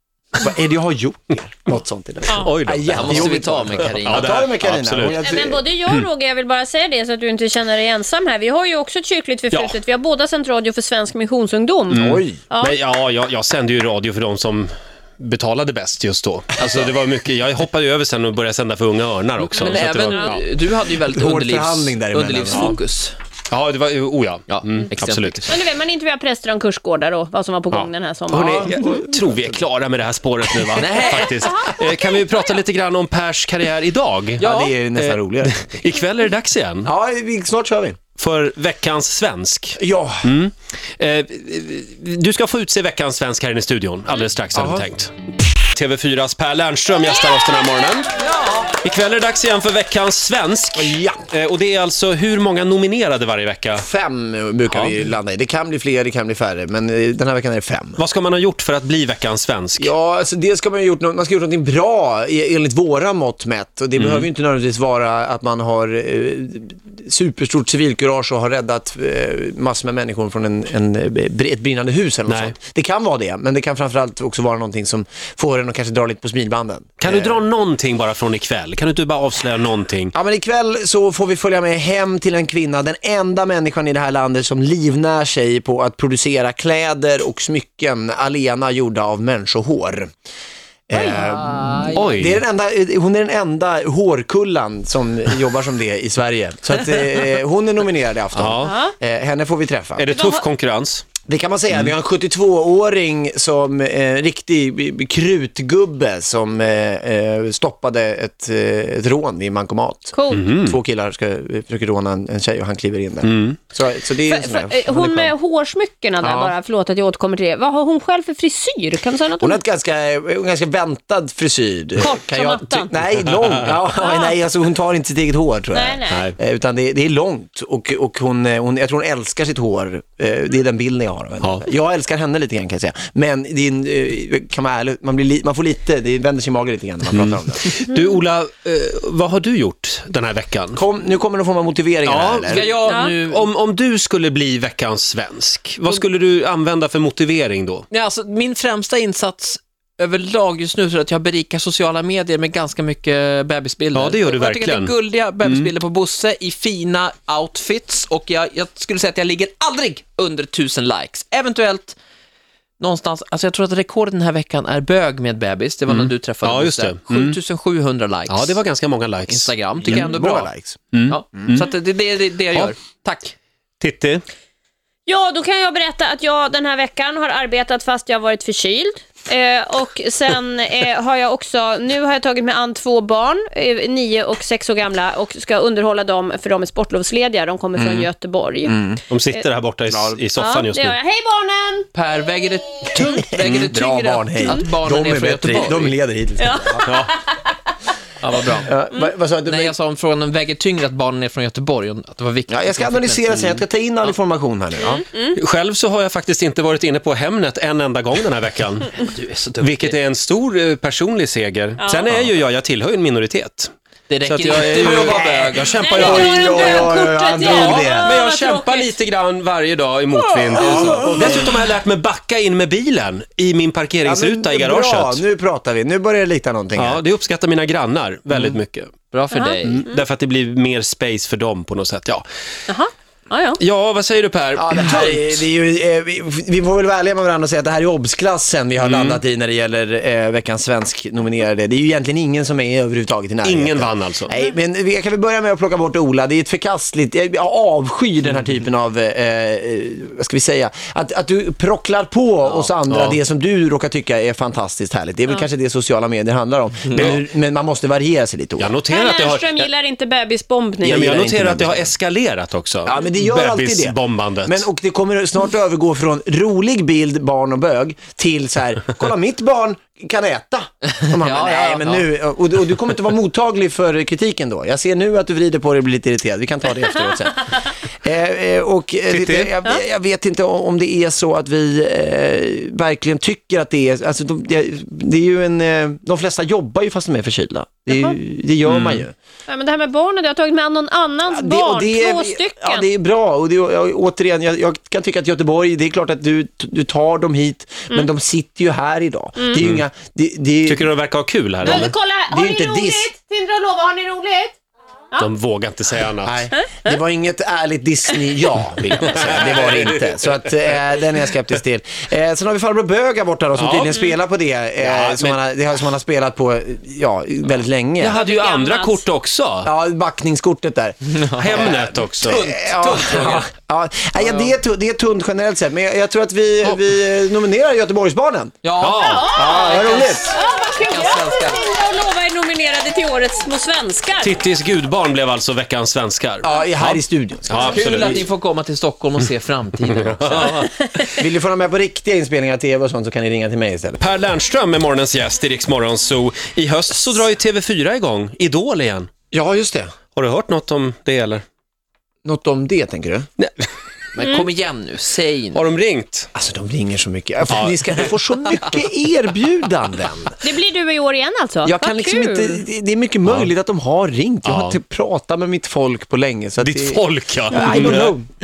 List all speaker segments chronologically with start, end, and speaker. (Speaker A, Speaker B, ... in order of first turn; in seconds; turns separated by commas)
Speaker A: 0.4-5.7, Speaker B: 2.3-2.5, Speaker C: 2.4-5.2, Speaker D: 2.9-4.4, Speaker B: 5.1-12.8, Speaker C: 9.5-9.8, Speaker C: 11.9-20.4, Speaker A: 11.9-12.4, Speaker D: 19.4-23.1, Speaker B: 19.5-20.4, Speaker A: 21.1-22.8, Speaker C: 23.5-25.5, Speaker D: 24.5-25.5, Speaker B: 25.5-29.0, Speaker C: 27.7-36.9, Speaker A: 28.5-29.6, Speaker D: 30.8-31.5, Speaker B: 30.9-32.6, Speaker D: 34.4-34.7, Speaker A: 34.4-35.8, Speaker A: 36.9-38.0, Speaker C: 38.2-48.2, Speaker A: 39.8-40.3, Speaker A: 44.5-44.9, Speaker B: 47.1-47.7, Speaker D: 48.2-48.7, Speaker C: 48.7-53.9, Speaker A: 50.8-51.3, Speaker A: 53.8-58.0, Speaker C: 54.7-55.0, Speaker C: 58.0-59.9, Speaker A: 59.8-77.4, Speaker C: 64.0-64.3, Speaker C: 72.3-72.5, Speaker C: 77.0-80.1, Speaker A: 80.1-90.1, Speaker A: 90.9-100.1, Speaker B: 90.9-91.2, Speaker D: 91.2-92.1, Speaker C: 91.9-92.4, Speaker C: 98.3-98.8, Speaker B: 98.6-99.0, Speaker C: 100.0-101.1, Speaker B: 100.1-100.5, Speaker A: 101.3-115.3, Speaker B: 110.1-110.5, Speaker C: 110.3-110.8, Speaker C: 113.2-113.6, Speaker B: 114.3-119.6, Speaker A: 116.2-116.5, Speaker A: 119.4-137.7, Speaker B: 122.0-122.9, Speaker B: 123.9-124.3, Speaker B: 125.7-126.2, Speaker C: 126.1-126.4, Speaker C: 131.4-131.7, Speaker C: 137.1-140.8, Speaker A: 140.7-142.7, Speaker C: 142.1-147.8, Speaker D: 142.5-143.5, Speaker B: 142.9-143.1, Speaker D: 147.9-162.0, Speaker C: 153.9-155.7, Speaker D: 162.8-168.6, Speaker C: 165.9-167.4, Speaker C: 168.3-170.1, Speaker D: 169.3-170.5, Speaker A: 169.8-170.8, Speaker C: 170.9-171.7, Speaker D: 171.1-173.3, Speaker C: 173.8-174.2, Speaker B: 175.1-188.8, Speaker A: 187.8-188.1, Speaker A: 188.6-189.0, Speaker C: 189.1-191.0, Speaker D: 189.9-190.2, Speaker B: 190.3-191.9, Speaker D: 191.9-196.0, Speaker A: 192.9-196.9, Speaker B: 196.4-197.6, Speaker C: 196.8-197.1, Speaker D: 198.2-198.7, Speaker A: 198.6-199.8, Speaker D: 199.4-203.5, Speaker A: 202.5-205.0, Speaker B: 204.8-205.4, Speaker C: 205.4-208.9, Speaker D: 208.9-210.0, Speaker C: 209.6-213.7, Speaker B: 211.8-212.1, Speaker D: 214.1-216.7, Speaker C: 214.2-215.2, Speaker A: 214.5-218.1, Speaker B: 215.0-218.9, Speaker C: 216.5-225.2, Speaker A: 220.5-221.6, Speaker A: 224.0-227.0, Speaker C: 226.8-228.9, Speaker D: 229.1-229.8, Speaker B: 229.3-229.9, Speaker C: 229.6-232.2, Speaker B: 232.7-233.6, Speaker C: 233.6-235.4, Speaker A: 234.6-258.7, Speaker C: 238.8-239.2, Speaker C: 243.4-244.3, Speaker C: 252.9-253.2, Speaker C: 256.9-257.2, Speaker C: 258.6-259.7, Speaker B: 258.9-261.1, Speaker A: 260.8-261.9, Speaker C: 260.9-264.7, Speaker A: 262.9-289.1, Speaker D: 271.0-272.1, Speaker C: 279.1-279.5, Speaker B: 287.9-288.2, Speaker C: 288.6-289.1, Speaker B: 289.5-292.9, Speaker A: 291.3-300.9, Speaker B: 299.4-299.6, Speaker C: 299.6-299.8, Speaker C: 300.7-301.9, Speaker A: 301.6-303.1, Speaker B: 301.6-304.6, Speaker C: 305.2-306.5, Speaker A: 306.2-318.2, Speaker B: 306.6-306.9, Speaker C: 309.1-309.9, Speaker C: 313.6-314.0, Speaker C: 314.8-315.4, Speaker C: 318.0-319.7, Speaker B: 318.1-319.0, Speaker A: 319.6-328.6, Speaker D: 321.2-321.7, Speaker C: 321.4-322.4, Speaker D: 322.2-323.5, Speaker D: 324.2-324.6, Speaker D: 328.6-331.6, Speaker C: 328.8-329.3, Speaker B: 328.9-334.4, Speaker A: 329.3-330.4, Speaker C: 334.2-338.2, Speaker A: 336.4-338.3, Speaker D: 337.6-340.6, Speaker C: 339.8-340.9, Speaker B: 340.6-341.2, Speaker A: 341.1-344.1, Speaker C: 344.0-349.1, Speaker A: 349.3-349.9, Speaker C: 350.1-351.4, Speaker A: 352.2-353.3, Speaker C: 353.4-353.7, Speaker D: 354.1-355.7, Speaker B: 354.2-354.5, Speaker C: 355.5-356.3, Speaker A: 356.4-360.4, Speaker C: 357.5-357.8, Speaker B: 360.4-362.6, Speaker A: 361.6-368.3, Speaker C: 363.3-363.5, Speaker C: 364.4-364.8, Speaker C: 366.6-368.1